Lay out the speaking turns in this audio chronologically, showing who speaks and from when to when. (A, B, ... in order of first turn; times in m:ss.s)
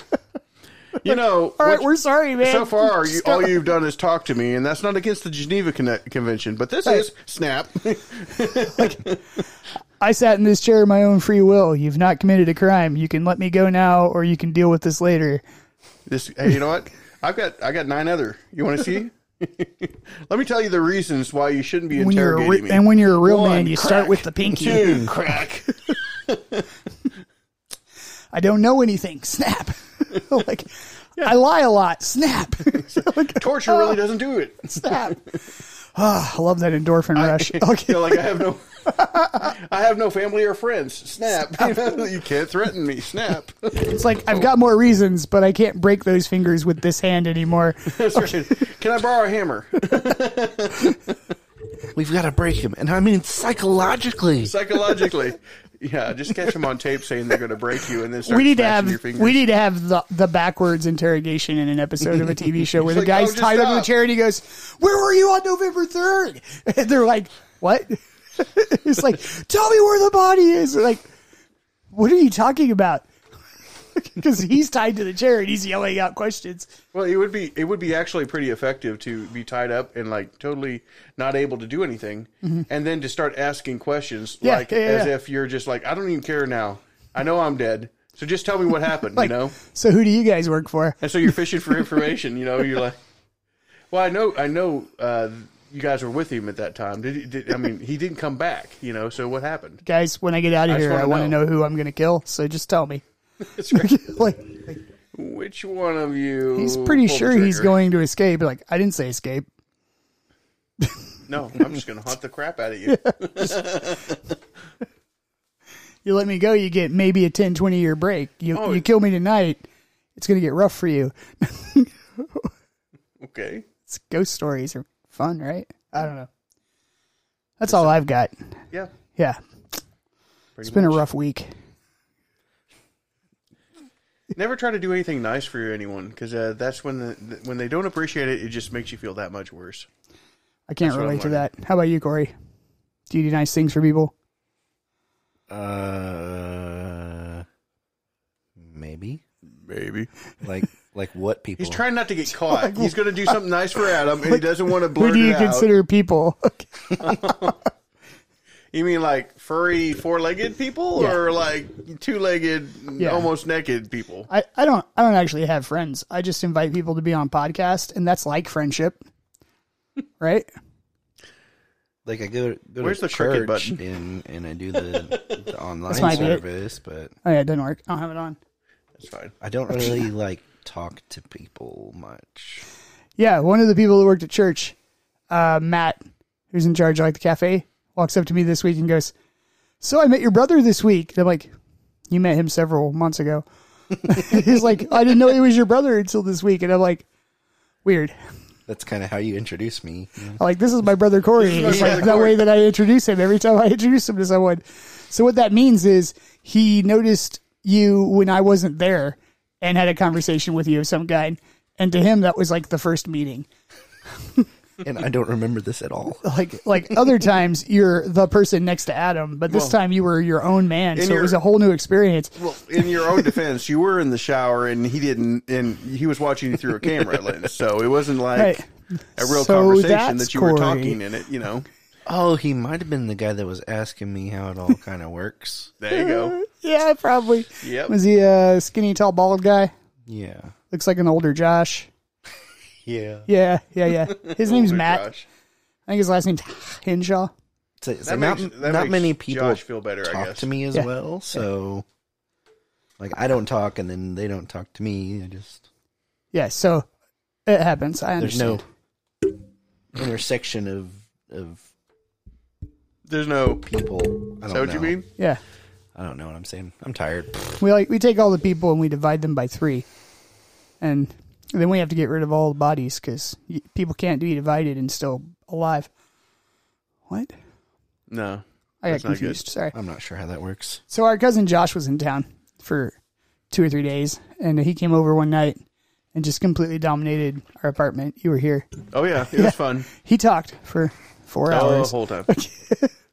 0:01.0-0:09.2 A
0:01.1-0:03.6 B
0:08.8-0:09.0 B
0:10.0-0:15.4 B
0:16.1-0:26.6 A
0:21.9-0:25.1 B
0:28.3-0:34.0 B
0:32.6-0:35.2 A
0:34.7-0:35.2 B
0:35.8-0:38.2 B
0:37.2-0:44.4 A
0:41.4-0:42.0 B
0:43.8-0:48.4 B
0:47.9-0:51.0 A
0:51.9-0:54.5 C
0:54.4-0:59.4 A
0:58.2-1:11.0 B
1:02.7-1:03.9 A
1:11.9-1:13.1 B
1:13.9-1:16.7 B
1:16.9-1:29.6 A
1:24.4-1:25.1 B
1:29.2-1:31.0 B
1:31.0-1:33.0 A
1:33.9-1:39.8 A
1:39.8-1:44.8 B
1:40.7-1:41.4 A
1:45.1-1:47.8 A
1:46.5-1:49.5 B
1:51.3-1:54.2 A
1:52.9-1:53.6 B
1:56.0-1:59.6 B
1:58.5-1:58.8 A
2:00.2-2:02.5 B
2:03.2-2:03.6 A
2:03.9-2:06.3 B
2:07.6-2:08.3 B
2:10.6-2:11.0 A
2:10.6-2:11.5 B
2:14.3-2:19.9 A
2:20.7-2:22.3 B
2:20.8-2:21.4 A
2:23.1-2:24.1 B
2:25.5-2:27.4 C
2:28.6-2:29.2 C
2:29.7-2:30.1 A
2:30.4-2:31.8 C
2:31.6-2:35.7 A
2:32.4-2:33.4 B
2:34.3-2:37.5 B
2:37.0-2:37.6 A
2:38.7-2:44.3 A
2:43.0-2:43.3 B
2:44.3-2:49.0 B
2:50.2-2:50.5 B
2:52.0-2:57.1 C
2:52.8-2:53.8 A
2:54.9-2:55.4 A
2:55.9-2:56.4 B
2:55.9-2:56.4 A
2:57.2-2:58.4 B
2:59.0-2:59.3 A
2:59.4-3:02.6 C
3:03.2-3:04.8 B
3:05.3-3:06.0 B
3:06.5-3:09.1 B
3:09.8-3:11.5 B
3:12.1-3:17.1 B
3:17.8-3:18.1 B
3:18.7-3:20.4 C
3:20.4-3:33.5 B
3:21.4-3:22.5 A
3:21.7-3:22.1 C
3:34.8-3:36.2 C
3:36.2-3:43.2 B
3:39.5-3:39.8 A
3:40.9-3:41.4 A
3:42.4-3:48.6 A
3:48.3-3:48.6 B
3:49.2-3:51.0 B
3:49.2-3:51.6 A
3:52.0-3:55.7 C
3:55.8-3:56.4 A
3:55.9-3:59.7 B
3:57.6-3:57.9 A
4:00.1-4:00.5 C
4:00.7-4:01.9 B
4:02.8-4:03.2 C
4:03.3-4:05.1 B
4:04.0-4:05.2 A
4:05.9-4:07.3 B
4:07.8-4:11.8 C
4:08.0-4:10.5 A
4:13.0-4:15.6 C
4:16.3-4:16.8 B
4:17.4-4:18.6 B
4:18.2-4:18.6 C
4:19.9-4:21.6 C
4:23.1-4:23.6 A
4:23.6-4:25.0 C
4:24.5-4:25.1 A
4:25.9-4:27.6 C
4:27.6-4:29.8 B
4:30.8-4:35.9 B
4:38.1-4:39.4 A
4:38.8-4:39.7 B
4:39.7-4:40.8 C
4:40.9-4:42.9 B
4:43.5-4:45.6 B
4:46.1-4:52.9 B
4:48.9-4:49.9 A
4:51.5-4:52.3 A